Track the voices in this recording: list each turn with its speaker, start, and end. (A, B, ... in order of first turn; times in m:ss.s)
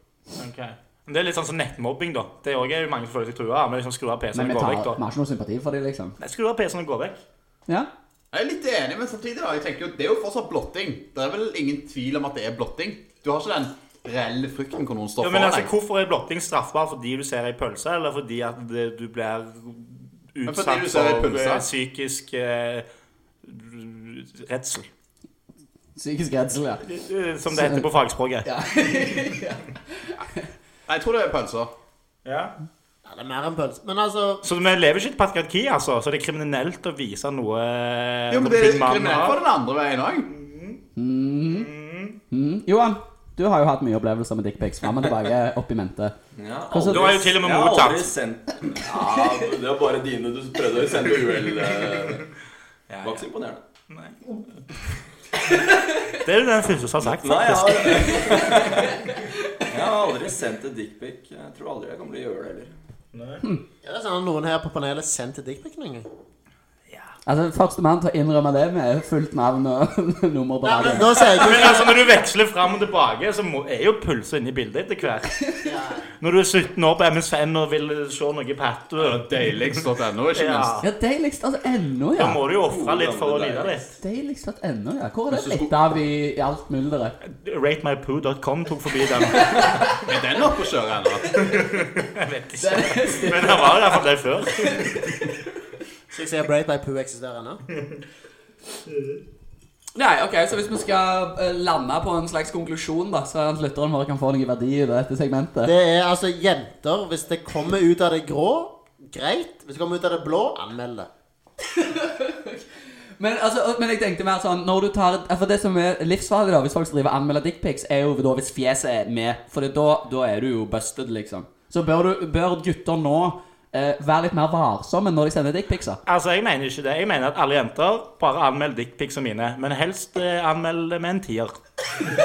0:00.4-0:05.0 A
0:04.3-0:06.2 B
0:06.2-0:07.2 A
0:08.3-0:15.7 C
0:15.2-0:22.9 A
0:20.5-0:21.7 C
0:23.4-0:24.9 A
0:26.0-0:26.9 B
0:26.9-0:28.5 A
0:27.5-0:27.8 B
0:28.4-0:30.4 B
0:30.9-0:31.7 C
0:32.2-0:32.6 A
0:33.0-0:34.4 D
0:34.4-0:39.4 A
0:38.3-0:40.3 C
0:40.3-0:40.8 A
0:41.0-0:41.7 B
0:41.4-0:42.2 A
0:42.3-0:46.2 B
0:46.4-0:52.3 E
0:46.7-0:47.2 B
0:46.9-0:48.1 A
0:52.9-0:53.3 A
0:53.0-0:53.6 E
0:53.9-0:54.2 A
0:55.8-0:56.1 B
0:56.1-0:58.2 A
0:57.0-0:59.0 E
0:57.6-0:59.6 B
0:59.7-1:02.7 E
1:03.1-1:03.4 A
1:03.8-1:06.1 D
1:07.3-1:11.2 B
1:10.6-1:12.0 D
1:11.2-1:15.4 A
1:15.6-1:16.1 D
1:16.2-1:19.8 A
1:19.0-1:20.8 C
1:20.3-1:20.8 A
1:20.8-1:22.4 B
1:22.2-1:24.0 A
1:22.6-1:23.8 E
1:24.0-1:27.2 B
1:25.3-1:25.7 E
1:27.3-1:29.7 A
1:29.3-1:30.0 B
1:30.0-1:31.4 C
1:31.4-1:35.2 A
1:32.6-1:34.0 B
1:34.6-1:35.0 B
1:36.1-1:37.6 D
1:38.9-1:39.2 A
1:40.0-1:45.7 B
1:45.6-1:51.1 D
1:51.7-1:52.6 B
1:53.2-2:06.0 B
2:06.1-2:11.6 A